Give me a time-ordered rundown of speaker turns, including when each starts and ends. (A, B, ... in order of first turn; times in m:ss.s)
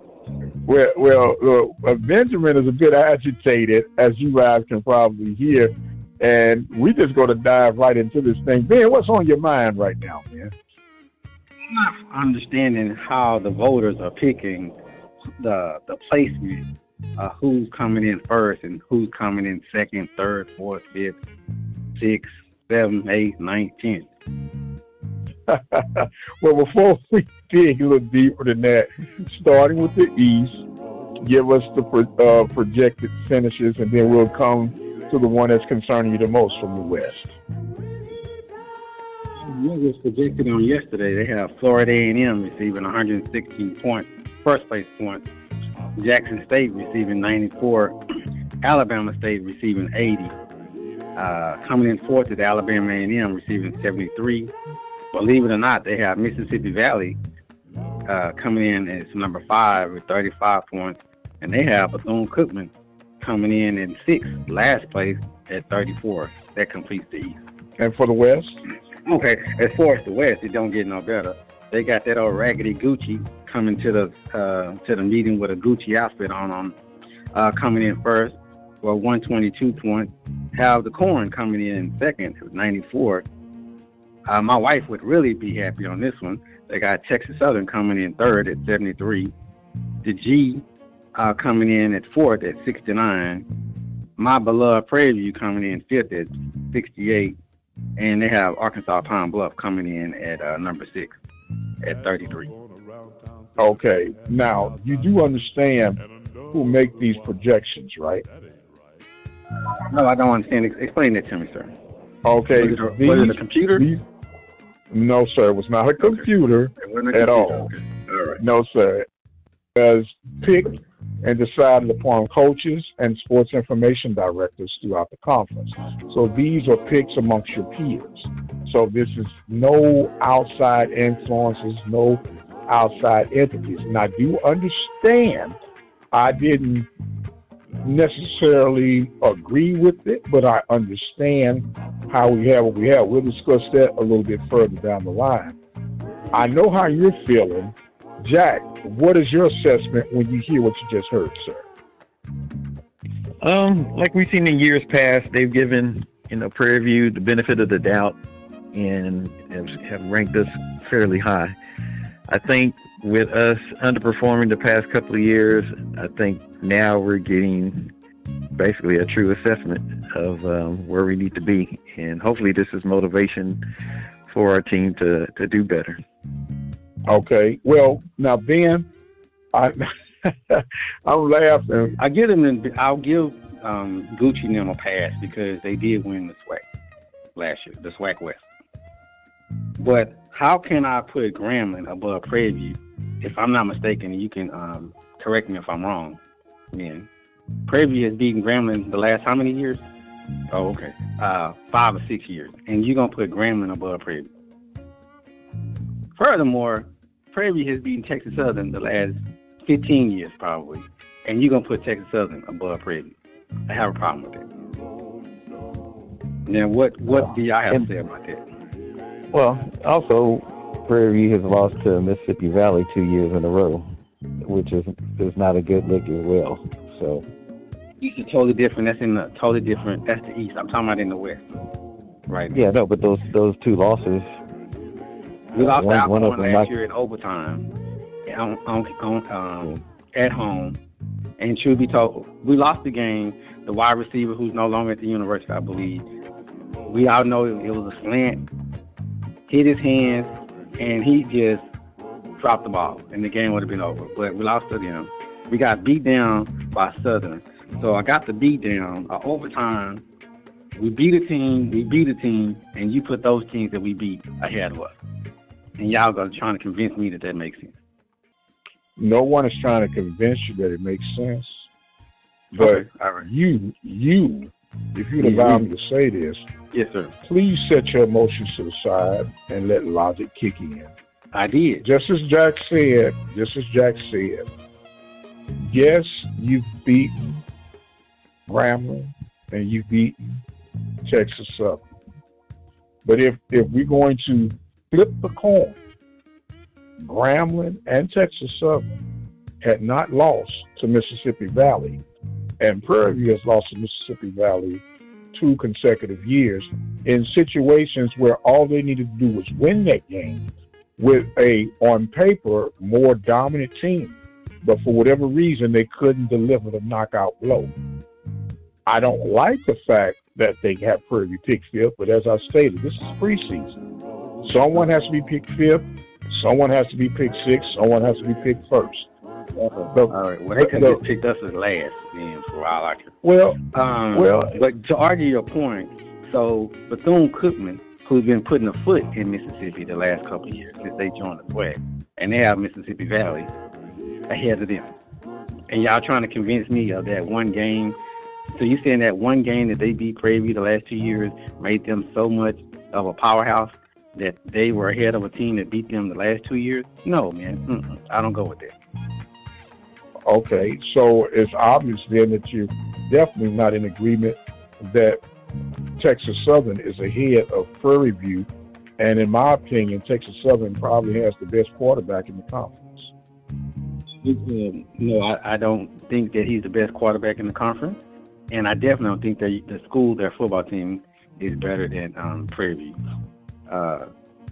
0:00.6-0:10.5 A
0:11.7-0:14.8 B
0:15.4-0:21.2 B
0:22.0-0:24.1 B
0:25.5-0:30.6 A
0:31.2-0:37.3 A
0:39.4-0:45.2 B
0:46.0-0:48.0 B
0:48.6-0:50.3 B
0:51.2-0:54.5 B
0:55.1-0:57.2 B
0:58.1-1:07.4 B
1:07.8-1:08.6 A
1:09.0-1:16.8 B
1:17.3-1:23.2 B
1:24.3-1:29.3 B
1:30.0-1:30.6 B
1:31.1-1:33.4 B
1:34.2-1:37.4 B
1:38.0-1:41.2 B
1:41.8-1:42.5 B
1:43.6-1:48.2 A
1:49.6-1:51.7 B
1:52.2-1:54.0 A
1:52.5-1:53.8 B
1:54.9-1:57.7 A
1:56.0-1:58.4 B
1:58.4-1:59.0 A
1:59.7-2:15.6 A
2:16.1-2:16.9 A
2:17.8-2:25.6 A
2:26.3-2:31.6 A
2:33.4-2:38.2 C
2:38.7-2:41.6 C
2:42.3-2:47.9 C
2:48.6-2:53.6 C
2:54.3-2:56.0 C
2:57.1-2:58.9 A
2:59.5-3:02.0 A
3:02.0-3:06.6 B
3:07.4-3:08.4 B
3:09.8-3:16.2 B
3:16.7-3:17.1 B
3:17.7-3:19.8 B
3:20.5-3:24.3 B
3:26.2-3:33.1 B
3:33.7-3:34.4 B
3:36.5-3:38.4 B
3:37.1-3:37.9 C
3:39.3-3:47.2 C
3:48.0-3:51.4 B
3:52.3-3:52.6 B
3:52.5-3:54.3 C
3:55.5-3:57.7 B
3:55.5-3:56.7 C
3:58.3-4:00.8 B
4:01.4-4:06.0 B
4:06.8-4:08.5 B
4:09.5-4:11.7 B
4:12.4-4:20.0 B
4:20.7-4:25.0 B
4:25.8-4:27.8 B
4:29.0-4:31.7 A
4:32.5-4:36.5 A
4:32.6-4:33.2 B
4:35.2-4:35.6 B
4:36.7-4:37.1 B
4:37.2-4:40.9 A
4:41.3-4:41.8 B
4:41.8-4:44.4 A
4:45.6-4:47.4 A
4:48.5-4:50.4 A
4:51.0-4:51.8 A
4:53.0-4:55.8 A
4:57.0-4:58.9 A
4:59.6-5:02.0 A
5:02.6-5:10.5 A
5:11.0-5:17.7 A
5:18.8-5:23.8 A
5:24.4-5:29.1 A
5:29.6-5:33.1 B
5:29.9-5:31.0 A
5:33.2-5:33.6 A
5:33.7-5:43.5 B
5:34.1-5:34.6 A
5:44.3-5:44.9 B
5:45.7-5:48.0 B
5:48.5-5:58.7 B
6:00.2-6:05.2 A
6:06.0-6:08.5 A
6:09.0-6:13.1 A
6:14.2-6:18.0 B
6:18.5-6:23.0 B
6:23.7-6:24.1 B